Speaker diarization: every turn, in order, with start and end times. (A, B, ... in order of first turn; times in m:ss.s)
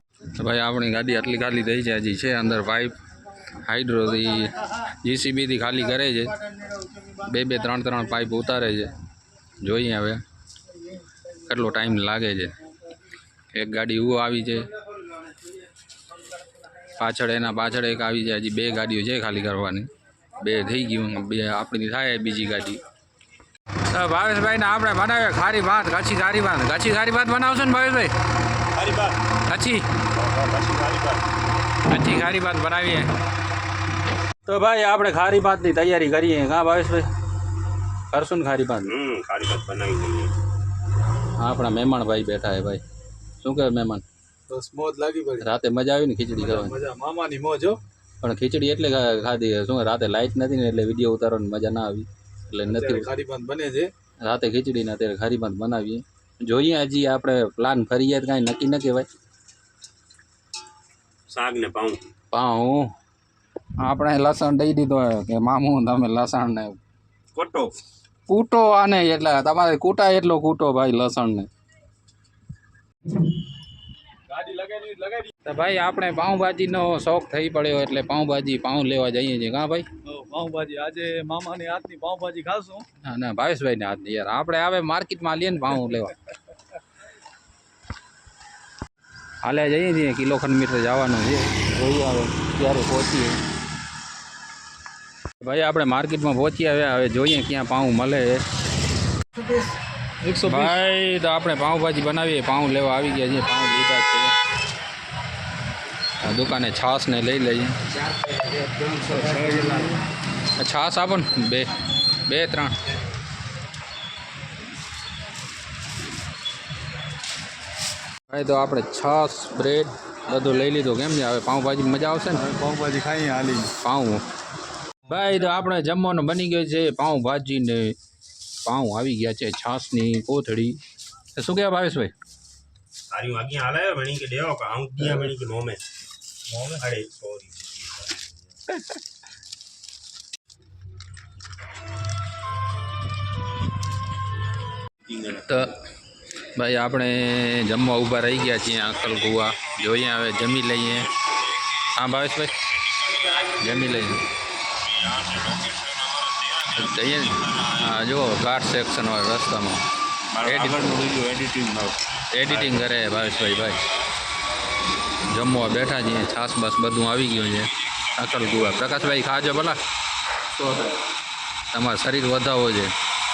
0:00.3-0:02.9 A
0:03.6-0:06.4 A
0:07.0-0:08.9 A
0:09.6-0:10.2 A
0:11.4-0:12.5 A
0:13.5-0:14.7 A
0:17.0-0:19.9 A
0:20.4-0:22.8 A
0:23.9-0:28.1 A
0:28.7-0:29.2 B
0:29.5-0:29.8 A
0:30.2-0:31.2 B
0:31.8-0:33.1 A
0:34.4-0:37.1 A
0:38.1-0:38.9 A
0:38.8-0:40.3 B
0:41.4-0:42.8 A
0:43.4-0:44.0 A
0:44.5-0:45.4 C
0:45.4-0:46.7 A
0:46.4-0:47.8 C
0:48.2-0:53.1 A
0:52.7-0:53.9 C
0:54.2-0:59.1 A
1:01.3-1:02.0 B
1:02.3-1:02.9 A
1:03.8-1:06.8 A
1:07.3-1:07.8 B
1:08.3-1:11.5 A
1:14.3-1:15.3 C
1:15.4-1:19.8 A
1:20.1-1:22.8 C
1:23.0-1:26.1 A
1:29.4-1:33.4 A
1:35.4-1:38.4 A
1:40.2-1:40.8 C
1:40.4-1:44.3 A
1:46.2-1:47.8 A
1:48.8-1:49.9 C
1:50.6-1:51.7 A
1:52.2-1:52.7 A
1:58.3-2:02.5 A
2:02.4-2:03.7 C
2:03.8-2:04.2 A
2:05.0-2:07.9 A
2:08.6-2:10.8 A
2:11.3-2:12.1 A
2:13.1-2:15.8 B
2:16.7-2:18.4 B
2:25.4-2:25.8 A
2:26.5-2:31.1 A
2:31.8-2:32.5 A
2:33.4-2:34.2 A
2:36.7-2:39.8 A
2:40.4-2:41.9 B
2:40.4-2:41.0 A
2:42.3-2:43.8 A
2:45.3-2:49.8 A
2:50.5-2:51.0 A
2:51.7-2:52.9 A